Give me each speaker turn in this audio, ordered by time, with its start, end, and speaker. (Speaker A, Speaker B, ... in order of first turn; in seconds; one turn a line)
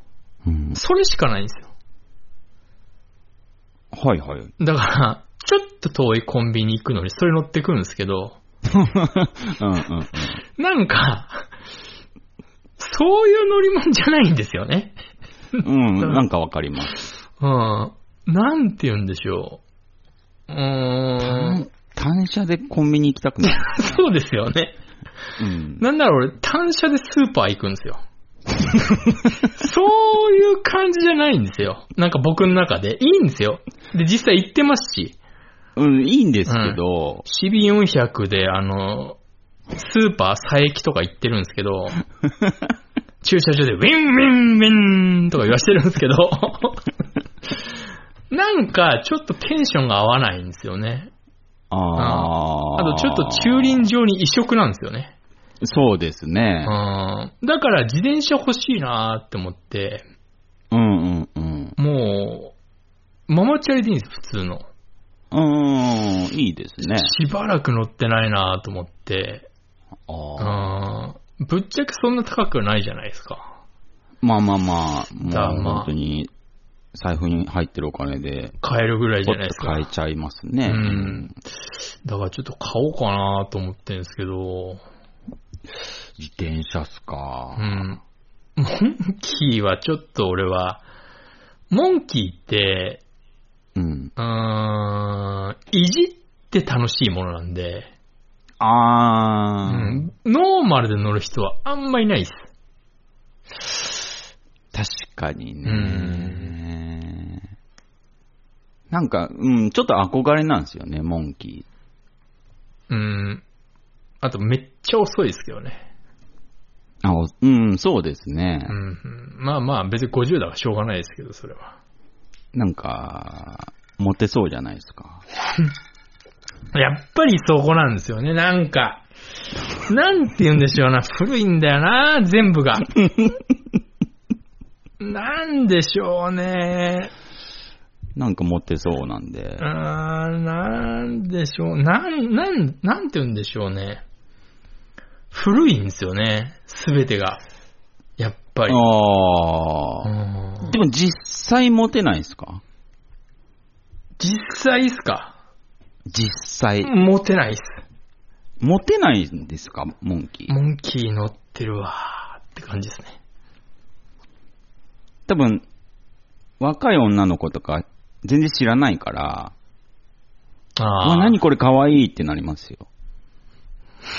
Speaker A: 0.4-0.8
Speaker B: 0.7-1.7
Speaker A: 3.9-4.5
Speaker B: 4.6-8.4
Speaker A: 8.7-10.4
Speaker B: 10.5-11.5
Speaker B: 12.8-14.9
Speaker B: 15.5-16.2
Speaker A: 15.6-16.9
Speaker B: 17.4-19.6
Speaker B: 20.5-21.6
Speaker A: 21.2-24.0
Speaker B: 23.4-24.8
Speaker A: 25.4-25.8
Speaker B: 25.8-28.0
Speaker B: 29.5-35.2
Speaker A: 35.8-37.2
Speaker B: 36.5-39.2
Speaker B: 39.7-42.0
Speaker B: 43.2-46.8
Speaker B: 48.3-51.1
Speaker A: 51.7-53.9
Speaker B: 52.0-55.1
Speaker A: 55.6-56.7
Speaker B: 56.6-60.0
Speaker A: 60.7-61.8
Speaker B: 61.8-62.5
Speaker B: 63.3-64.7
Speaker A: 65.3-67.1
Speaker B: 66.9-69.5
Speaker A: 70.1-70.7
Speaker B: 70.4-73.5
Speaker A: 74.2-76.3
Speaker B: 75.3-75.9
Speaker A: 76.9-78.5
Speaker B: 78.6-79.9
Speaker A: 79.2-81.3
Speaker B: 80.7-81.3
Speaker B: 82.0-84.8
Speaker A: 86.2-87.9
Speaker B: 87.6-88.0
Speaker B: 88.6-90.8
Speaker B: 91.7-93.0
Speaker A: 93.7-94.1
Speaker B: 94.2-97.9
Speaker A: 98.6-100.0
Speaker B: 99.7-102.5
Speaker A: 104.7-107.5
Speaker B: 105.6-106.5
Speaker A: 108.9-111.6
Speaker B: 112.9-113.4
Speaker B: 114.2-115.8
Speaker A: 117.0-118.7
Speaker B: 118.7-121.8
Speaker A: 122.5-125.2
Speaker B: 126.7-129.1
Speaker B: 129.7-132.9
Speaker B: 135.0-137.1
Speaker A: 138.2-139.6
Speaker B: 139.6-144.0
Speaker B: 145.3-147.4
Speaker B: 148.2-148.8
Speaker A: 148.7-150.1
Speaker B: 150.0-150.8
Speaker A: 150.6-152.6
Speaker B: 154.2-155.3
Speaker A: 156.1-156.9
Speaker B: 156.8-157.8
Speaker A: 158.6-160.5
Speaker B: 160.5-163.2
Speaker A: 165.3-165.6
Speaker A: 166.6-169.5
Speaker B: 170.8-171.4
Speaker A: 171.0-172.9